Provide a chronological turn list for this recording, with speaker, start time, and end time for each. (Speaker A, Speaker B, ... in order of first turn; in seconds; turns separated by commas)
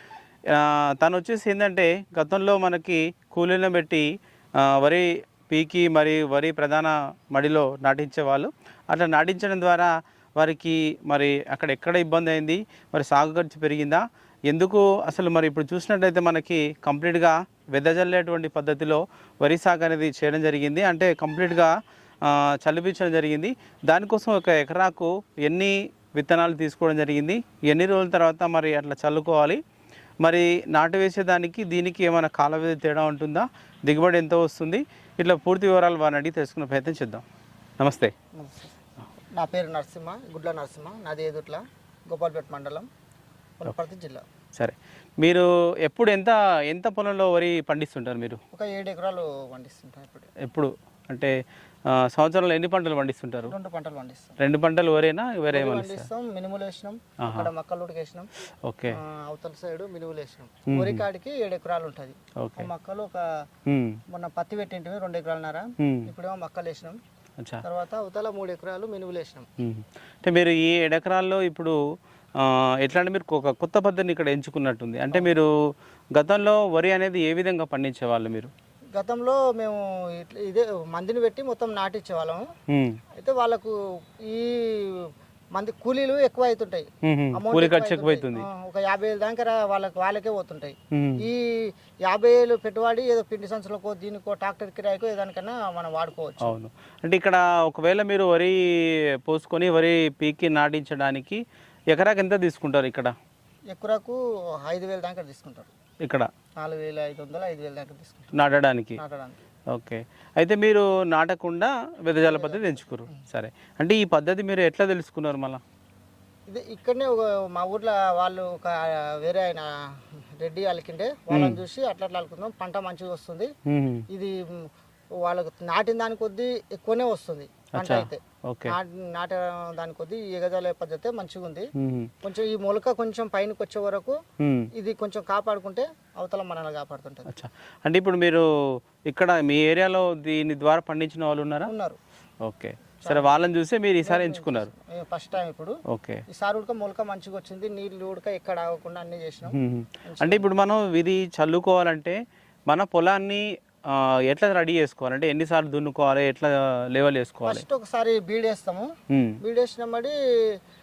Speaker A: 0.5-29.6, Speaker A: 30.2-37.2, Speaker A: 37.8-38.1, Speaker B: 38.3-38.8, Speaker B: 39.3-42.9, Speaker B: 43.6-44.2, Speaker A: 44.5-48.4, Speaker B: 48.5-50.3, Speaker A: 50.4-51.4, Speaker A: 51.9-53.5, Speaker B: 53.5-54.4, Speaker A: 54.4-56.1, Speaker B: 55.5-58.3, Speaker A: 57.2-57.5, Speaker A: 58.6-59.0, Speaker B: 58.9-63.3, Speaker A: 60.7-61.0, Speaker A: 62.4-62.7, Speaker A: 63.7-64.0, Speaker B: 64.1-67.0, Speaker A: 65.8-66.1, Speaker B: 67.6-69.5, Speaker A: 69.6-71.8, Speaker A: 72.4-75.5, Speaker A: 76.1-78.5, Speaker B: 78.9-82.5, Speaker A: 82.7-83.0, Speaker B: 83.2-96.5, Speaker A: 87.0-88.4, Speaker A: 90.9-91.2, Speaker A: 96.4-103.1, Speaker B: 103.7-105.7, Speaker A: 106.0-106.3, Speaker B: 106.6-108.3, Speaker A: 108.3-109.0, Speaker B: 109.0-109.4, Speaker A: 109.7-115.6, Speaker B: 112.2-113.2, Speaker B: 116.5-119.7, Speaker B: 120.4-123.5, Speaker A: 121.3-121.6, Speaker A: 123.7-124.0, Speaker B: 124.1-124.3, Speaker B: 125.2-131.7, Speaker A: 127.8-128.8, Speaker A: 131.8-132.1, Speaker B: 132.2-134.2, Speaker A: 134.4-134.7, Speaker B: 134.8-137.3, Speaker A: 137.3-141.7, Speaker B: 141.7-142.0, Speaker A: 142.4-144.7, Speaker B: 143.0-143.5, Speaker B: 144.0-145.8, Speaker A: 145.9-146.2, Speaker B: 146.3-150.5, Speaker A: 149.5-157.6, Speaker B: 157.4-158.9, Speaker A: 159.1-159.4, Speaker B: 159.4-160.6